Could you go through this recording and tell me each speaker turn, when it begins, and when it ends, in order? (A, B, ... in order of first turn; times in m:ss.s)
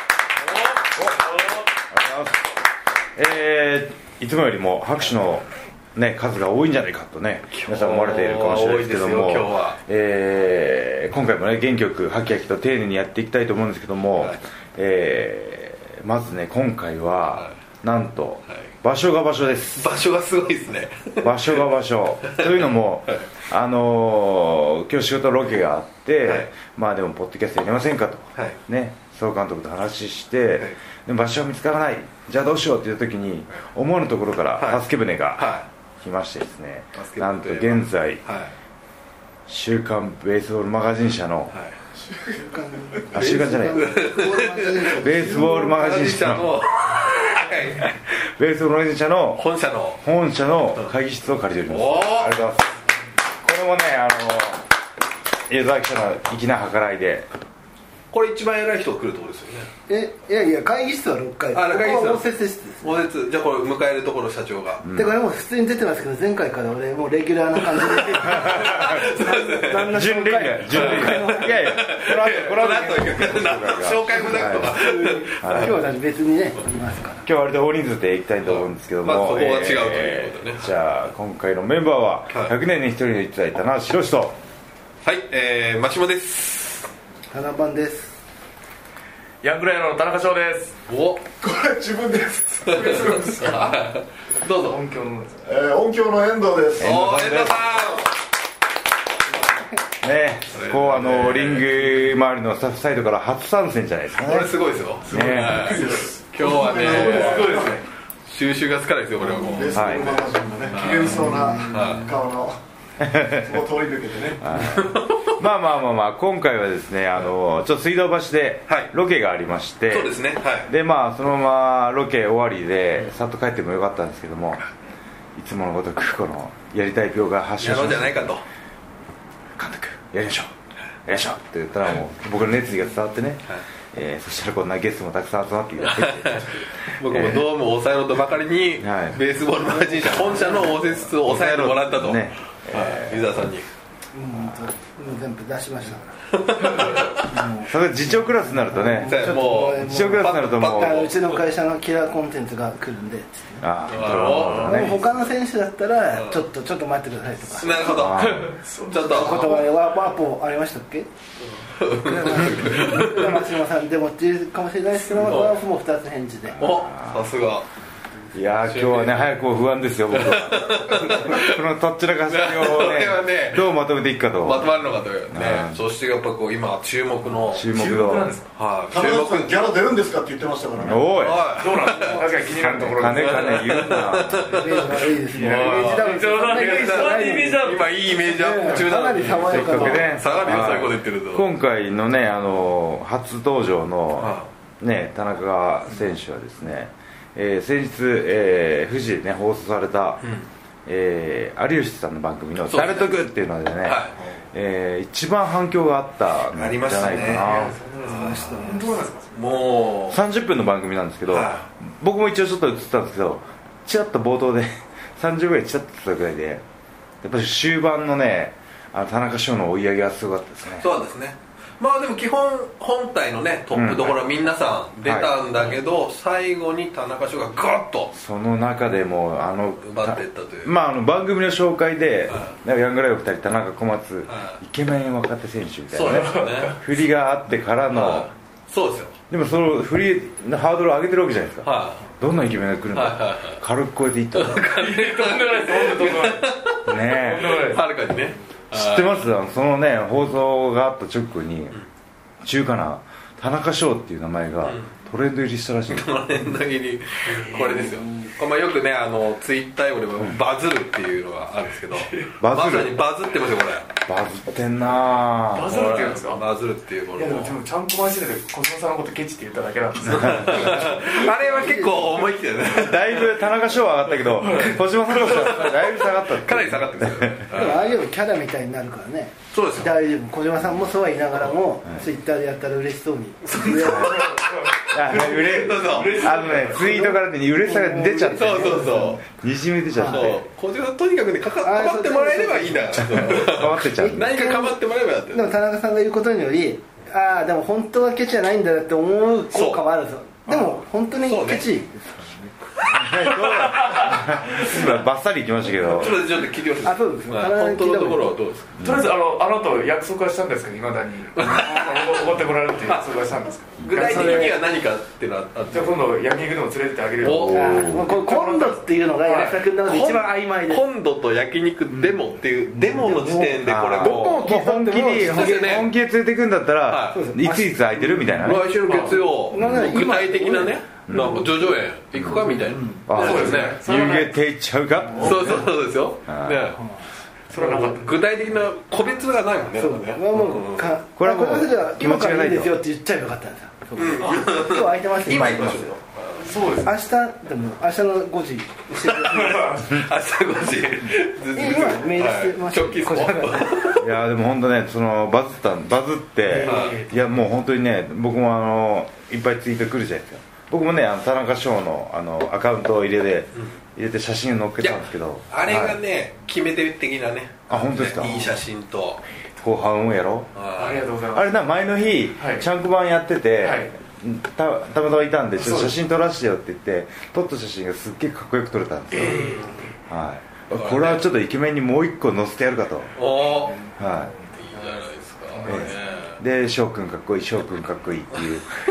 0:01.0-0:02.5 A
0:03.2-0:20.0 A
0:07.5-0:09.8 B
0:19.8-0:21.5 B
0:21.2-0:38.2 A
0:22.2-0:23.3 B
0:34.6-0:34.8 B
0:35.4-0:35.7 B
0:37.0-0:38.5 B
0:39.5-0:41.6 A
0:42.0-0:42.5 C
0:42.4-0:45.8 D
0:43.1-0:44.0 A
0:43.2-0:48.0 B
0:44.9-0:46.6 A
0:48.4-0:49.5 A
0:49.4-0:50.0 B
0:50.0-0:52.8 A
0:51.7-0:52.4 B
0:53.4-0:54.7 A
0:55.5-0:57.3 A
0:58.1-0:59.7 B
0:59.9-1:02.9 D
1:01.5-1:02.3 B
1:02.8-1:04.8 B
1:04.8-1:05.2 A
1:05.0-1:11.7 D
1:07.8-1:10.0 B
1:08.3-1:09.0 A
1:09.9-1:14.7 A
1:10.7-1:15.8 B
1:14.4-1:17.3 D
1:15.4-1:15.8 A
1:17.2-1:24.4 A
1:18.5-1:20.7 B
1:25.0-1:26.9 B
1:27.3-1:28.2 D
1:29.4-1:30.8 E
1:30.9-1:31.3 B
1:31.4-1:33.8 C
1:32.7-1:34.8 B
1:34.6-1:35.4 E
1:35.4-1:37.0 C
1:36.8-1:37.7 A
1:36.8-1:38.1 B
1:40.0-1:44.6 A
1:40.5-1:41.7 B
1:44.2-1:47.8 B
1:45.1-1:45.8 A
1:45.1-1:47.8 C
1:46.8-1:47.8 E
1:48.3-1:50.2 B
1:49.2-1:52.6 C
1:49.7-1:50.2 A
1:50.7-1:52.1 B
1:51.2-1:52.0 D
1:53.0-1:53.5 A
1:53.2-1:54.5 C
1:54.4-2:04.6 A
1:54.5-1:55.3 B
1:59.9-2:00.7 B
2:05.4-2:08.3 A
2:07.6-2:08.4 B
2:09.6-2:10.5 A
2:11.1-2:17.4 A
2:15.8-2:23.7 B
2:18.8-2:19.2 A
2:20.0-2:23.3 A
2:20.1-2:20.8 D
2:24.1-2:26.2 D
2:26.3-2:27.3 B
2:27.2-2:27.7 D
2:27.6-2:31.1 A
2:28.4-2:33.7 D
2:29.1-2:31.4 B
2:33.6-2:35.0 A
2:33.9-2:34.8 B
2:34.3-2:34.8 E
2:34.6-2:38.0 D
2:37.6-2:39.7 B
2:37.9-2:38.5 A
2:38.2-2:39.7 E
2:39.0-2:41.1 D
2:41.4-2:43.5 B
2:41.9-2:46.6 D
2:45.2-2:45.6 B
2:46.6-2:47.3 A
2:46.6-2:47.7 B
2:48.3-2:55.8 A
2:48.7-2:49.2 B
2:50.1-2:51.7 B
2:52.3-2:53.7 B
2:54.4-2:57.7 B
2:57.5-2:58.3 A
2:57.6-2:58.5 E
2:58.6-2:59.8 B
2:58.9-3:01.3 C
3:00.8-3:01.5 A
3:01.1-3:02.3 B
3:01.5-3:03.9 E
3:01.9-3:02.3 D
3:02.5-3:04.6 A
3:03.0-3:11.5 B
3:04.5-3:10.1 D
3:05.2-3:07.9 E
3:09.0-3:10.2 E
3:09.5-3:20.2 A
3:14.2-3:14.5 B
3:20.2-3:20.5 B
3:20.9-3:24.0 A
3:22.7-3:23.2 B
3:23.8-3:24.2 B
3:24.5-3:27.8 A
3:26.5-3:30.2 B
3:27.1-3:29.4 E
3:28.0-3:29.1 D
3:30.1-3:36.6 A
3:31.3-3:31.7 B
3:37.2-3:40.9 A
3:40.8-3:48.1 B
3:43.7-3:44.2 A
3:45.0-3:45.4 A
3:48.1-3:58.3 A
3:49.8-3:50.7 B
3:52.3-3:52.6 B
3:54.3-3:54.6 B
3:55.9-3:56.8 B
3:57.9-3:59.2 B
3:59.3-4:04.6 A
4:01.6-4:02.1 B
4:02.9-4:03.6 B
4:04.3-4:06.9 B
4:04.7-4:06.6 E
4:06.9-4:07.7 A
4:07.1-4:07.8 E
4:07.5-4:09.2 B
4:08.7-4:11.8 A
4:12.4-4:16.2 A
4:14.6-4:14.9 B
4:15.9-4:23.9 B
4:17.3-4:18.0 E
4:22.0-4:22.4 E
4:22.4-4:23.0 A
4:24.0-4:25.9 A
4:25.5-4:26.4 E
4:25.7-4:27.6 B
4:27.2-4:31.3 E
4:30.0-4:33.5 B
4:30.2-4:30.5 A
4:31.4-4:32.2 D
4:32.7-4:37.5 A
4:34.2-4:35.5 E
4:35.1-4:37.9 B
4:37.5-4:44.3 D
4:39.5-4:39.9 B
4:43.4-4:46.4 B
4:43.8-4:46.9 E
4:43.8-4:44.2 A
4:44.9-4:50.4 A
4:46.6-4:49.2 D
4:48.4-4:49.2 B
4:49.9-4:50.3 D
4:50.0-4:55.6 B
4:51.6-4:54.8 D
4:53.2-4:54.3 A
4:55.3-5:02.5 D
4:59.5-4:59.8 B
5:00.5-5:01.7 B
5:02.8-5:03.1 B
5:02.9-5:06.3 A
5:03.2-5:04.7 E
5:05.8-5:08.8 B
5:06.8-5:08.3 D
5:08.8-5:09.1 A
5:08.8-5:14.5 E
5:11.4-5:12.3 B
5:12.8-5:13.1 B
5:13.8-5:16.0 B
5:13.8-5:14.2 A
5:13.9-5:14.6 D
5:15.7-5:19.6 E
5:17.2-5:17.7 B
5:17.4-5:18.1 A
5:17.5-5:20.8 D
5:19.7-5:24.6 B
5:22.7-5:25.8 D
5:23.6-5:28.7 A
5:25.2-5:25.9 B
5:26.9-5:27.2 B
5:27.1-5:31.7 D
5:28.4-5:33.8 B
5:28.9-5:29.2 E
5:29.6-5:29.9 A
5:31.1-5:31.4 A
5:32.2-5:32.4 A
5:32.4-5:33.1 D
5:33.1-5:35.6 A
5:33.1-5:34.4 E
5:35.1-5:35.5 D
5:35.2-5:36.8 B
5:35.2-5:35.5 E
5:36.3-5:36.7 A
5:37.5-5:38.2 E
5:37.5-5:41.0 B
5:39.8-5:46.0 D
5:41.2-5:42.8 A
5:44.0-5:46.5 B
5:45.3-5:45.8 A
5:46.4-5:47.0 E
5:46.8-5:49.8 D
5:49.0-5:54.0 B
5:49.2-5:50.0 E
5:51.5-5:54.0 D
5:54.0-6:06.0 A
5:56.5-5:57.1 E
5:56.6-5:57.0 B
6:04.8-6:09.2 B
6:07.7-6:08.5 A
6:09.6-6:10.5 A
6:10.6-6:11.1 B
6:10.8-6:11.5 E
6:11.3-6:23.2 A
6:12.4-6:12.7 E
6:13.6-6:13.9 E
6:15.6-6:16.0 E
6:19.1-6:19.8 E
6:19.3-6:19.7 B
6:20.7-6:21.3 B
6:23.2-6:23.8 B
6:24.0-6:24.3 A
6:24.5-6:26.4 B
6:25.5-6:26.0 E
6:25.6-6:28.7 A